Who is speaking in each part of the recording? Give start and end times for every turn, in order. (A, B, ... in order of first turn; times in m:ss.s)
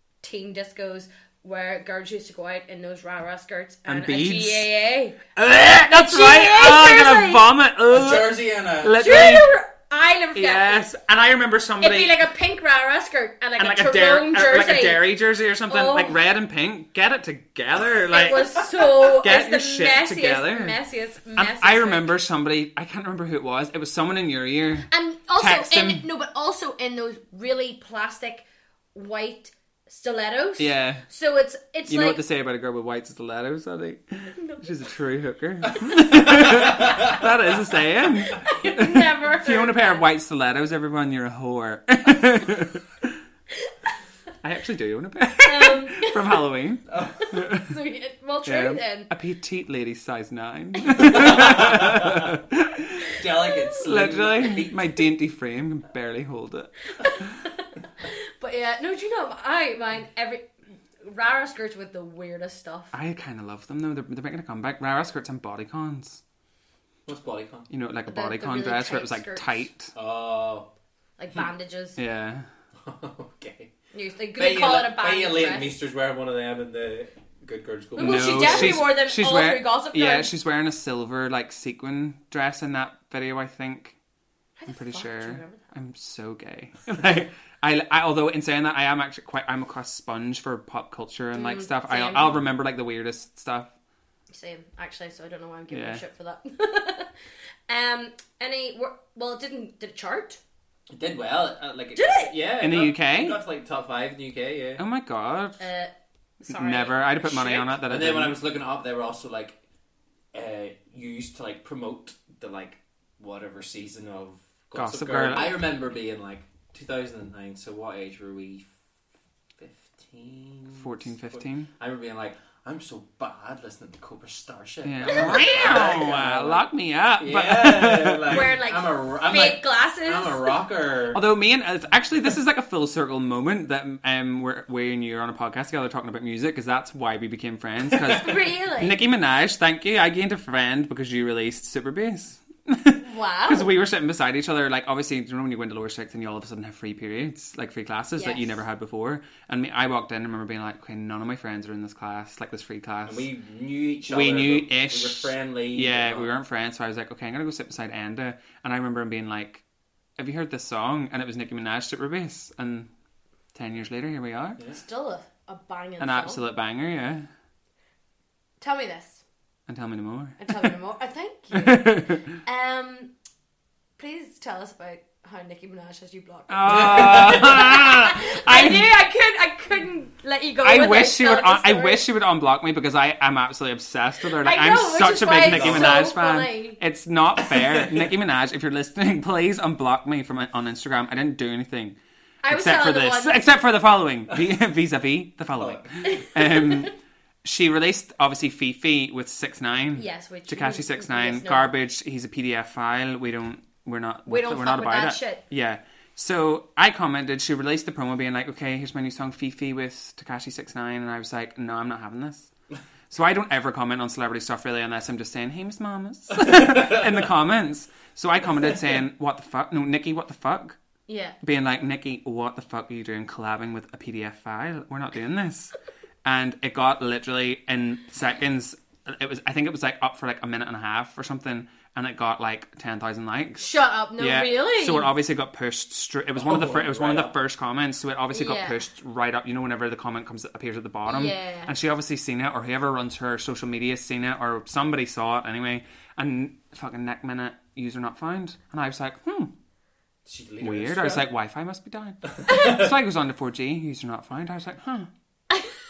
0:00.2-0:05.2 A
0:03.8-0:04.7 B
0:05.4-0:09.5 B
0:05.8-0:07.4 A
0:07.9-0:09.0 C
0:09.0-0:10.8 A
0:10.3-0:12.2 B
0:11.8-0:15.0 A
0:13.6-0:20.8 B
0:15.7-0:16.1 A
0:18.1-0:22.1 A
0:21.4-0:26.0 B
0:24.9-0:32.2 A
0:30.6-0:31.0 B
0:31.9-0:43.2 B
0:34.4-0:34.7 A
0:36.3-0:37.2 C
0:38.3-0:40.0 A
0:44.4-0:47.7 B
0:45.4-0:46.4 A
0:46.9-0:47.2 C
0:47.2-0:49.1 A
0:48.4-0:53.2 B
0:50.9-0:51.2 A
0:51.0-0:52.3 C
0:53.1-0:54.9 C
0:53.8-0:57.5 B
0:57.0-1:02.9 A
1:02.9-1:06.2 B
1:07.0-1:07.7 C
1:07.7-1:09.9 B
1:08.1-1:09.6 A
1:09.9-1:10.7 C
1:11.2-1:12.0 A
1:12.0-1:12.4 B
1:12.8-1:13.7 C
1:13.9-1:15.8 A
1:14.4-1:18.9 C
1:18.0-1:20.3 A
1:18.0-1:24.0 B
1:24.6-1:25.6 A
1:24.7-1:33.7 B
1:31.3-1:32.4 A
1:34.3-1:37.1 A
1:35.7-1:36.0 B
1:37.7-1:40.4 A
1:40.9-1:44.8 C
1:42.0-1:42.3 A
1:42.6-1:43.4 B
1:44.8-1:45.6 B
1:45.6-1:47.7 A
1:46.5-1:48.4 B
1:47.6-1:49.6 C
1:50.3-1:58.7 C
1:54.7-1:55.6 B
1:59.6-2:06.6 C
2:00.7-2:01.7 B
2:04.8-2:08.5 B
2:05.1-2:05.6 A
2:07.2-2:11.2 C
2:08.3-2:10.6 A
2:11.1-2:33.3 B
2:18.1-2:19.0 A
2:23.0-2:23.7 A
2:28.2-2:28.6 A
2:33.1-2:36.3 C
2:34.1-2:39.6 B
2:40.2-2:42.9 B
2:43.5-2:44.6 B
2:44.7-2:46.4 A
2:46.0-2:47.3 B
2:48.6-2:49.2 A
2:49.7-2:50.7 B
2:50.4-2:53.1 A
2:51.5-2:52.2 B
2:54.0-3:02.0 A
2:56.5-2:58.9 B
2:56.7-2:57.6 C
3:00.6-3:12.0 B
3:04.4-3:06.8 A
3:05.4-3:06.1 C
3:07.4-3:08.1 C
3:12.4-3:13.5 A
3:12.5-3:32.5 B
3:15.6-3:15.9 C
3:16.0-3:16.9 A
3:20.0-3:21.7 A
3:24.2-3:25.4 A
3:33.1-3:40.8 B
3:41.1-3:41.4 A
3:41.4-3:45.7 B
3:46.2-4:09.5 B
3:53.6-3:55.1 A
3:56.4-3:57.3 C
3:58.3-3:58.8 A
4:01.1-4:01.7 A
4:10.2-4:11.3 C
4:10.6-4:15.1 B
4:12.4-4:12.8 C
4:12.5-4:12.8 A